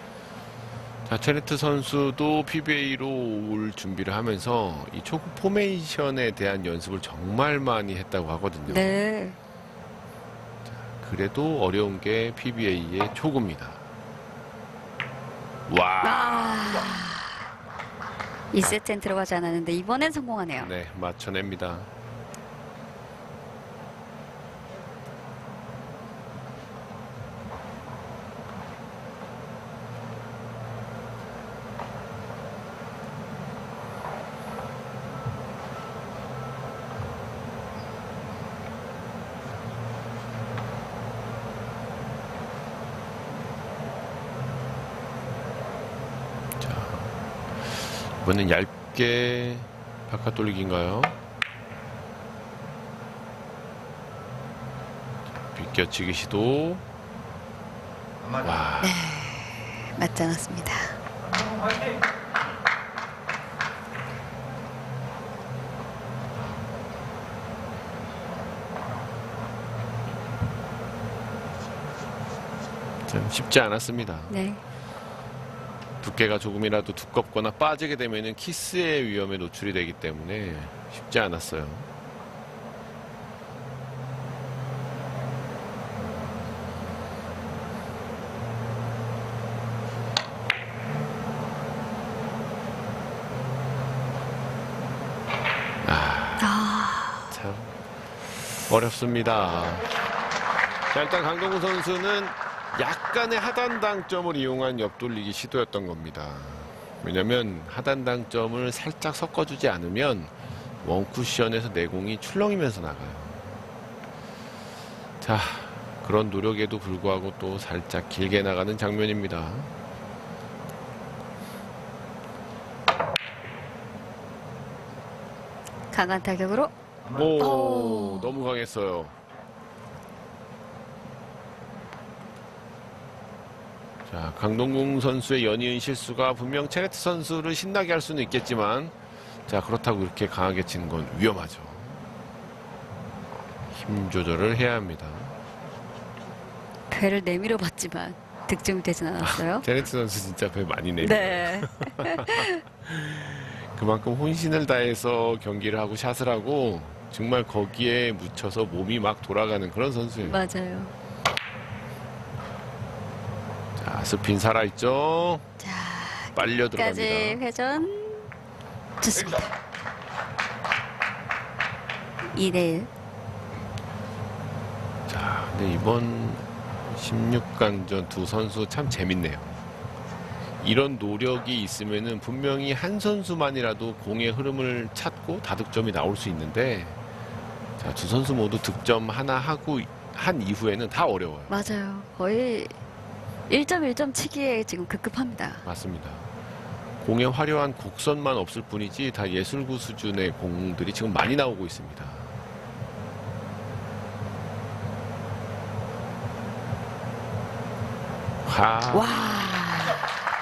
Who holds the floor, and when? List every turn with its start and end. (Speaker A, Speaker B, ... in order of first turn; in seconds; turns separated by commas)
Speaker A: 1.1-9.0, Speaker B: 8.7-9.4, Speaker A: 10.9-13.8, Speaker A: 15.7-16.9, Speaker B: 16.0-17.4, Speaker B: 18.5-20.7, Speaker A: 20.6-21.9, Speaker A: 46.6-51.2, Speaker A: 55.5-56.8, Speaker A: 58.4-59.0, Speaker B: 58.8-61.0, Speaker A: 73.1-74.4, Speaker B: 74.3-74.6, Speaker A: 76.0-81.9, Speaker A: 95.8-96.5, Speaker B: 96.4-97.3, Speaker A: 97.3-97.7, Speaker A: 98.7-99.9, Speaker A: 100.9-113.5, Speaker A: 115.2-119.7, Speaker B: 125.9-128.3, Speaker A: 127.1-129.2, Speaker A: 134.1-138.9, Speaker A: 139.5-142.0, Speaker A: 143.7-145.4, Speaker B: 146.9-149.7, Speaker A: 149.2-160.4, Speaker B: 151.0-152.6, Speaker B: 160.2-160.9, Speaker A: 163.8-165.5, Speaker B: 165.6-168.3, Speaker A: 166.3-167.4, Speaker B: 169.0-169.5, Speaker B: 172.3-172.9, Speaker A: 175.1-179.6, Speaker A: 180.6-187.0, Speaker A: 187.8-191.6, Speaker B: 191.5-192.7, Speaker B: 193.5-195.7, Speaker A: 195.7-196.3, Speaker A: 197.0-202.3, Speaker A: 208.4-209.5, Speaker B: 208.9-210.0